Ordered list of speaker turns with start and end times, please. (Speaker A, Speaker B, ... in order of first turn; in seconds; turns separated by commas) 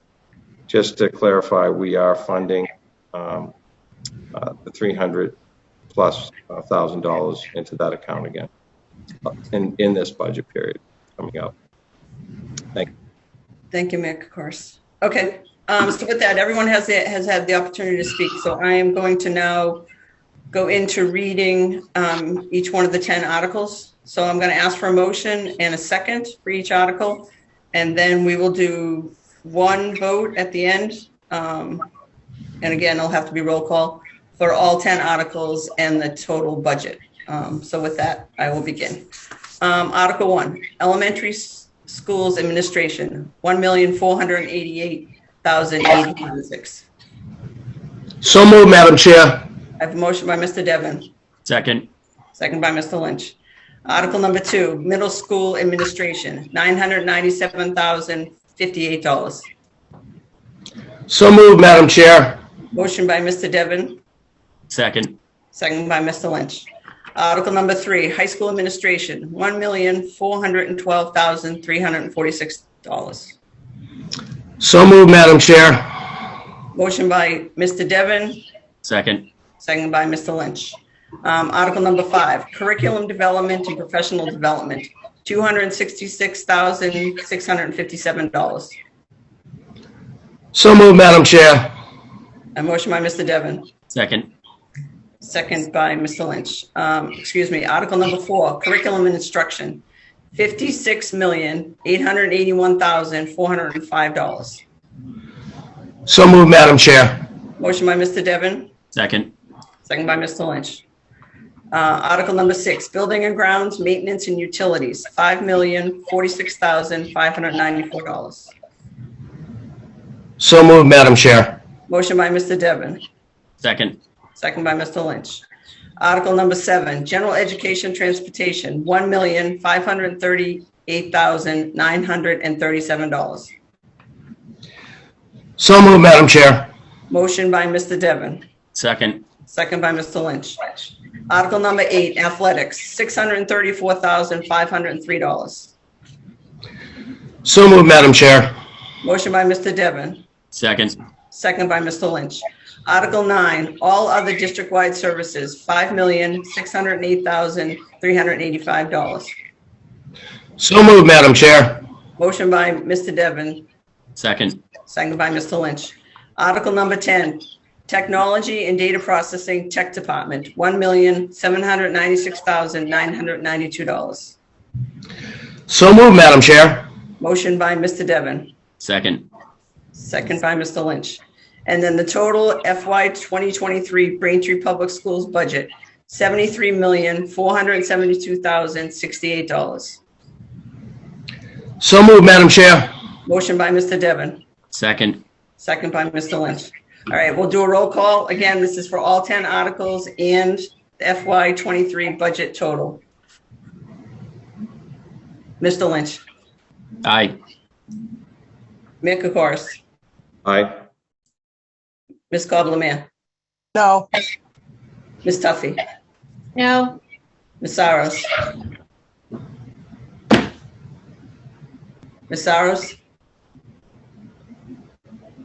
Speaker A: 0.7-3.5, Speaker A: 4.3-5.4, Speaker A: 5.9-8.5, Speaker A: 9.3-11.5, Speaker B: 13.7-19.9, Speaker B: 20.5-31.9, Speaker B: 32.6-39.1, Speaker B: 39.6-46.9, Speaker C: 48.2-49.5, Speaker B: 49.8-51.1, Speaker D: 51.5-51.9, Speaker B: 52.4-59.5, Speaker C: 61.1-62.4, Speaker B: 62.7-64.0, Speaker D: 64.7-65.2, Speaker B: 65.5-73.3, Speaker C: 74.6-75.8, Speaker B: 76.7-78.4, Speaker D: 78.8-79.3, Speaker B: 79.6-88.8, Speaker C: 90.5-91.7, Speaker B: 92.5-93.7, Speaker D: 93.9-94.3, Speaker B: 95.2-99.8, Speaker B: 100.3-104.6, Speaker C: 106.1-107.2, Speaker B: 107.6-108.7, Speaker D: 108.9-109.3, Speaker B: 109.8-110.8, Speaker B: 111.7-118.5, Speaker C: 120.4-121.6, Speaker B: 121.9-123.0, Speaker D: 123.6-124.0, Speaker B: 124.4-125.4, Speaker B: 126.0-133.5, Speaker C: 135.6-136.7, Speaker B: 137.1-138.4, Speaker D: 138.8-139.2, Speaker B: 139.5-145.7, Speaker C: 147.4-148.5, Speaker B: 149.0-150.2, Speaker D: 150.5-151.0, Speaker B: 151.3-159.3, Speaker C: 160.6-161.8, Speaker B: 162.2-163.7, Speaker D: 164.2-164.6, Speaker B: 164.9-174.4, Speaker C: 175.7-176.9, Speaker B: 177.2-178.5, Speaker D: 178.8-179.3, Speaker B: 179.9-190.0, Speaker C: 191.8-192.9, Speaker B: 193.3-194.4, Speaker D: 194.7-195.2, Speaker B: 195.6-203.0, Speaker B: 205.6-206.2, Speaker D: 207.0-207.3, Speaker B: 209.0-209.8, Speaker A: 210.4-210.8, Speaker B: 212.3-213.1, Speaker B: 215.2-215.8, Speaker B: 217.6-218.3, Speaker B: 222.3-223.0